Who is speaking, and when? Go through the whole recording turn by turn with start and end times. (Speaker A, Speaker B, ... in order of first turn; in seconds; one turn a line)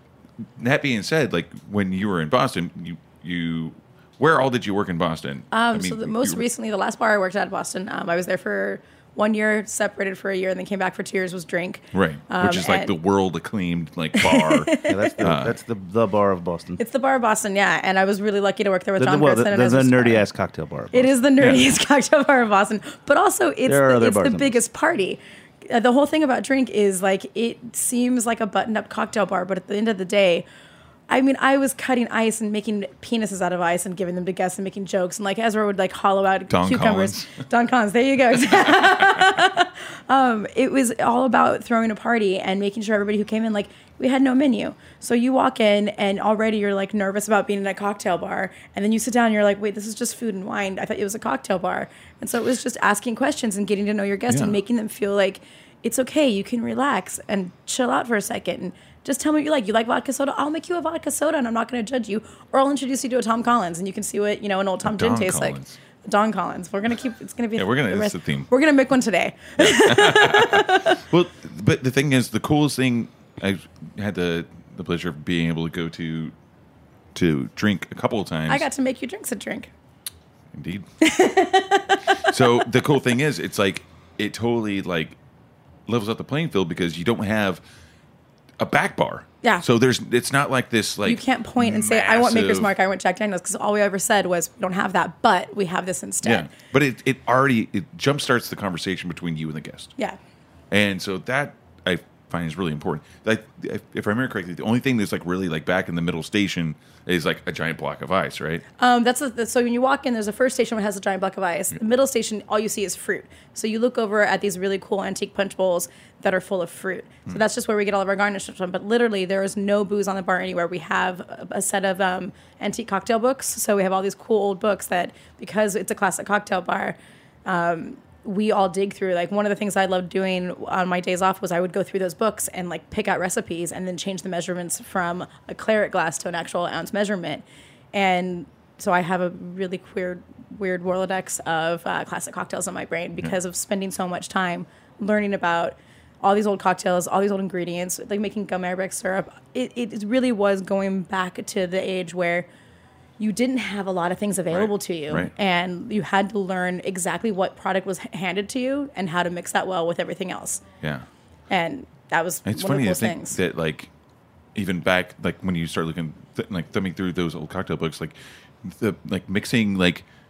Speaker A: 0.6-6.4
Speaker B: 5.5-12.9
Speaker A: 11.9-15.6
Speaker B: 14.2-15.2
Speaker C: 14.8-16.8
Speaker B: 16.8-20.2
Speaker C: 19.0-21.2
Speaker B: 20.9-30.5
Speaker C: 23.7-24.6
Speaker B: 31.1-71.0
Speaker A: 36.5-37.3
Speaker A: 54.3-54.6
Speaker A: 64.8-65.8
Speaker A: 67.6-68.5
Speaker A: 69.6-76.3
Speaker A: 77.2-78.7
Speaker B: 78.5-79.7
Speaker A: 80.5-80.9
Speaker B: 81.0-82.1
Speaker A: 82.3-85.2
Speaker A: 85.9-87.6
Speaker A: 88.6-92.7
Speaker B: 91.0-96.5
Speaker A: 96.2-100.0
Speaker A: 100.7-108.6
Speaker B: 108.8-152.5
Speaker B: 153.2-160.6
Speaker A: 154.5-155.3
Speaker B: 161.5-163.4
Speaker A: 162.5-163.9
Speaker A: 164.6-170.1